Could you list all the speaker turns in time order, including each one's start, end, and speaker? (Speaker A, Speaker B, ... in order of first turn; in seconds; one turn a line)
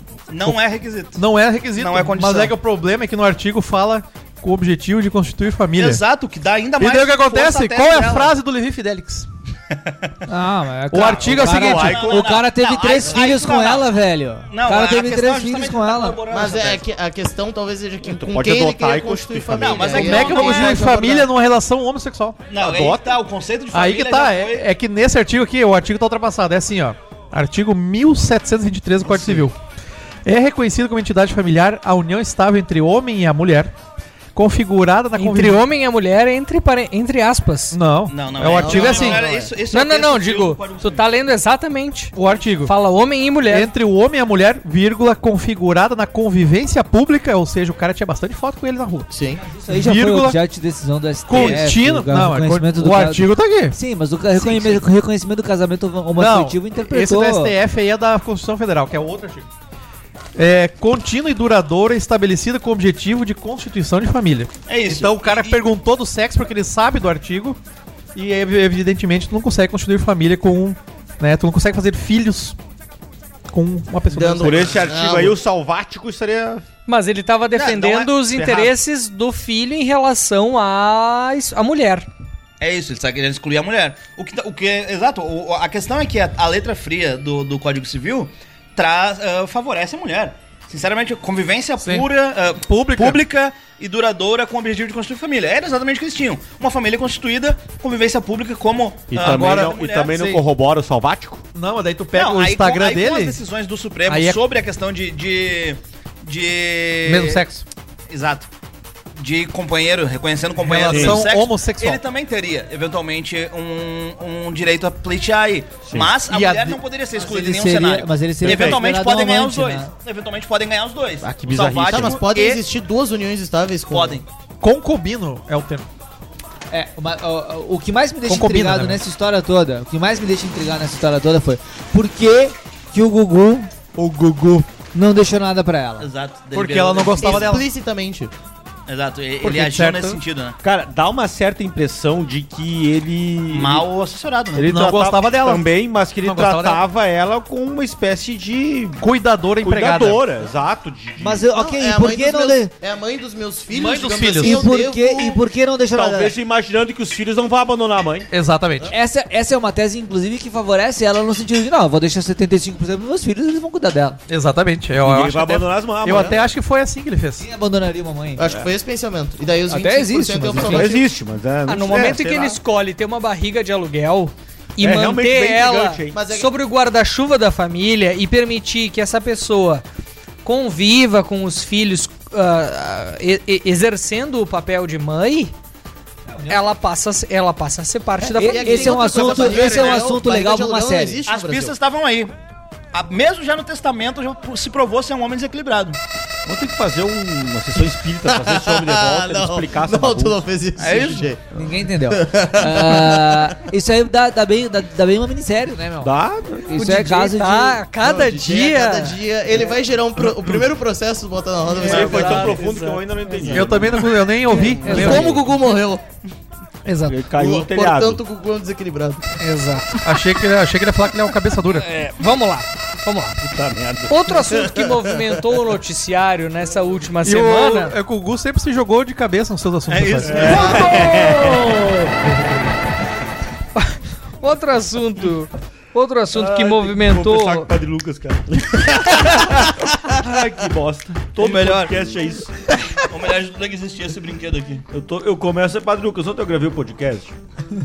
Speaker A: 0.3-1.2
Speaker B: 1.1-6.0
Speaker A: 1.8-2.5
Speaker A: 5.8-8.3
Speaker B: 6.8-9.3
Speaker A: 9.7-10.1
Speaker C: 10.3-16.2
Speaker B: 10.9-12.2
Speaker D: 11.2-12.2
Speaker A: 11.4-13.9
Speaker A: 14.5-16.8
Speaker E: 16.3-21.3
Speaker D: 18.1-20.0
Speaker A: 19.6-20.9
Speaker B: 19.9-23.0
Speaker A: 22.5-24.6
Speaker B: 23.7-29.5
Speaker E: 29.0-29.3
Speaker B: 30.2-33.7
Speaker B: 34.3-35.6
Speaker F: 35.1-37.8
Speaker B: 37.7-39.2
Speaker A: 38.1-41.0
Speaker E: 38.6-39.5
Speaker F: 39.7-43.7
Speaker B: 42.1-42.7
Speaker B: 43.5-49.1
Speaker E: 49.1-49.4
Speaker C: 49.4-57.5
Speaker B: 49.7-50.4
Speaker B: 51.3-53.8
Speaker A: 51.3-51.7
Speaker B: 56.2-59.5
Speaker B: 60.3-67.6
Speaker A: 64.7-65.6
Speaker B: 68.1-72.6
Speaker B: 73.5-74.8
Speaker E: 74.1-75.4
Speaker D: 74.4-76.6
Speaker F: 76.8-82.1
Speaker D: 77.5-78.7
Speaker A: 82.6-100.2
Speaker B: 91.8-93.2
Speaker D: 99.1-101.4
Speaker B: 99.2-100.4
Speaker B: 101.5-103.4
Speaker A: 102.1-107.4
Speaker B: 104.1-104.4
Speaker B: 107.0-107.6
Speaker A: 108.1-108.5
Speaker A: 109.2-122.6
Speaker B: 110.6-112.0
Speaker D: 110.9-111.2
Speaker D: 115.8-116.2
Speaker B: 116.3-116.7
Speaker C: 117.2-119.9
Speaker D: 118.4-118.8
Speaker D: 121.2-122.2
Speaker E: 121.9-124.2
Speaker A: 123.9-124.2
Speaker B: 124.6-125.9
Speaker C: 126.7-133.7
Speaker B: 128.3-129.0
Speaker B: 133.9-134.7
Speaker C: 134.9-136.1
Speaker A: 136.0-137.6
Speaker B: 136.5-137.6
Speaker E: 137.2-138.3
Speaker A: 138.9-140.6
Speaker B: 139.4-140.2
Speaker D: 140.6-143.8
Speaker A: 143.5-144.7
Speaker D: 144.5-149.0
Speaker B: 144.7-146.8
Speaker B: 149.0-150.4
Speaker D: 149.6-151.5
Speaker C: 151.2-152.7
Speaker E: 151.5-155.4
Speaker B: 153.7-154.7
Speaker C: 154.4-156.3
Speaker D: 155.9-158.3
Speaker B: 158.3-158.9
Speaker C: 158.9-164.2
Speaker B: 164.3-167.4
Speaker D: 165.0-166.4
Speaker C: 167.4-168.6
Speaker E: 168.4-171.0
Speaker C: 169.7-171.0
Speaker D: 170.6-172.6
Speaker F: 171.7-179.8
Speaker D: 174.8-176.2
Speaker E: 176.1-176.5
Speaker F: 180.4-185.5
Speaker F: 186.4-189.8
Speaker E: 188.2-191.7
Speaker C: 188.3-191.2
Speaker A: 189.6-190.0
Speaker A: 191.2-192.3
Speaker A: 192.9-196.0
Speaker D: 196.4-200.4
Speaker E: 198.2-201.4
Speaker A: 200.8-201.3
Speaker C: 201.5-207.8
Speaker E: 202.0-203.6
Speaker D: 206.0-206.7
Speaker F: 206.7-209.2
Speaker E: 208.0-212.6
Speaker F: 211.7-213.6
Speaker D: 211.8-215.5
Speaker B: 213.4-215.3
Speaker F: 214.8-215.3
Speaker E: 214.8-216.0
Speaker F: 216.8-217.2
Speaker D: 217.1-218.2
Speaker E: 217.3-219.3
Speaker F: 219.4-220.0
Speaker B: 220.0-221.9
Speaker A: 221.7-222.2
Speaker F: 222.2-223.4
Speaker D: 223.4-224.7
Speaker F: 224.1-227.9
Speaker B: 227.2-230.6
Speaker A: 229.9-231.8
Speaker D: 230.2-231.8
Speaker F: 233.8-237.7
Speaker D: 236.3-242.7
Speaker A: 241.4-241.9
Speaker A: 243.0-244.8
Speaker D: 244.9-247.3